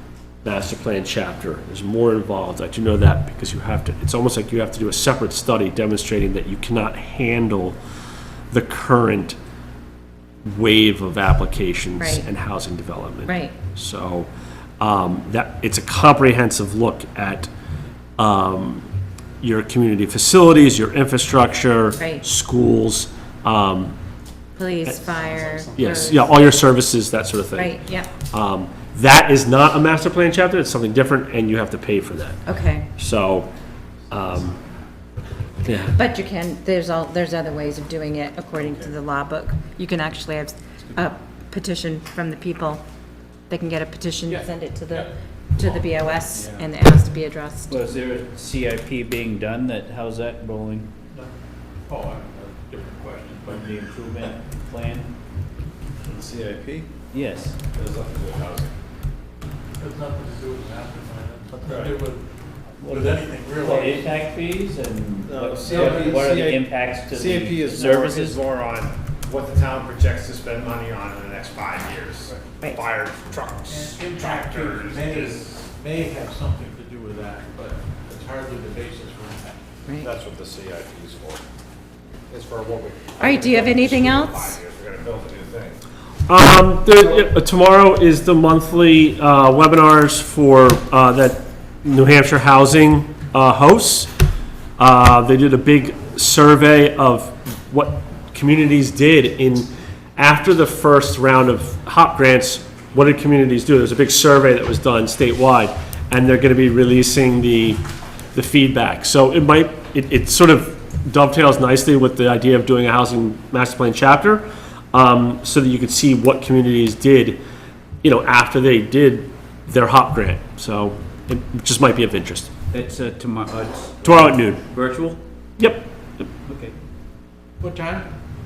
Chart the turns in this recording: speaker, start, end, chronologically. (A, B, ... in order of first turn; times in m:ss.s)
0:00.4-0:07.8 A
0:08.5-0:09.4 A
0:10.4-0:14.3 A
0:12.0-0:12.3 B
0:13.3-0:13.6 B
0:14.8-0:17.5 A
0:18.2-0:18.9 A
0:19.4-0:24.0 A
0:22.0-0:22.2 B
0:24.6-0:26.5 B
0:25.8-0:32.4 A
0:27.6-0:28.1 B
0:32.5-0:32.9 B
0:33.0-0:33.5 A
0:34.1-0:34.5 A
0:35.6-0:36.0 A
0:36.0-0:42.8 B
0:43.5-0:47.8 B
0:47.7-0:50.9 C
0:51.9-0:53.6 D
0:53.4-0:55.1 C
0:56.1-0:56.9 E
0:57.1-0:57.6 C
0:57.7-0:58.7 E
0:59.8-1:02.2 D
1:01.7-1:01.9 E
1:02.8-1:08.4 C
1:02.9-1:04.1 D
1:05.3-1:15.4 E
1:05.6-1:06.2 D
1:12.6-1:12.8 B
1:13.7-1:19.6 D
1:20.0-1:21.4 E
1:22.3-1:25.8 E
1:23.2-1:24.6 B
1:26.3-1:34.1 A
1:34.8-1:47.8 A
1:48.3-1:57.4 A
1:58.0-2:02.5 A
2:02.7-2:05.2 C
2:04.0-2:04.6 A
2:05.6-2:05.9 A
2:06.4-2:06.8 C
2:07.6-2:08.1 D